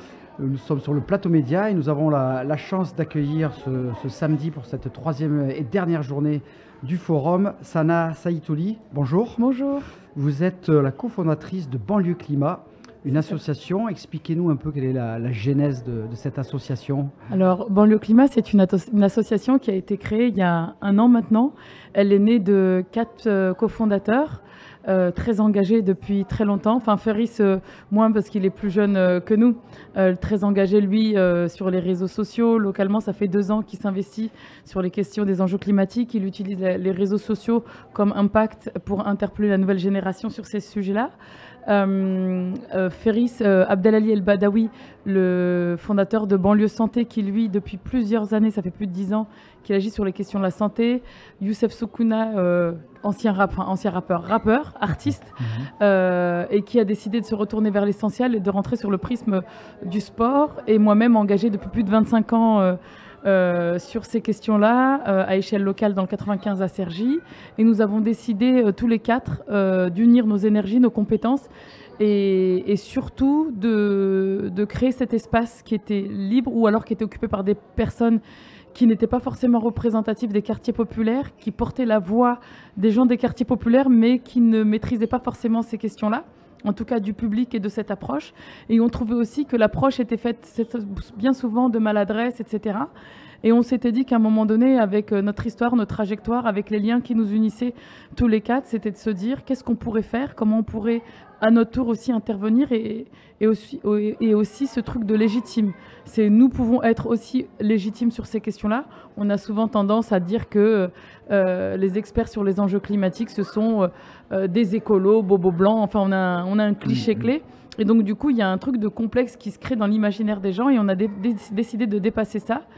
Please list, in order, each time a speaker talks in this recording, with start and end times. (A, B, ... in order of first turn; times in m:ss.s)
0:00.4-0:09.4 A
0:09.4-0:09.9 B
0:10.1-0:17.1 A
0:17.3-0:41.1 B
0:41.7-1:18.2 B
0:55.4-0:55.7 A
1:18.7-1:32.9 B
1:33.4-2:02.6 B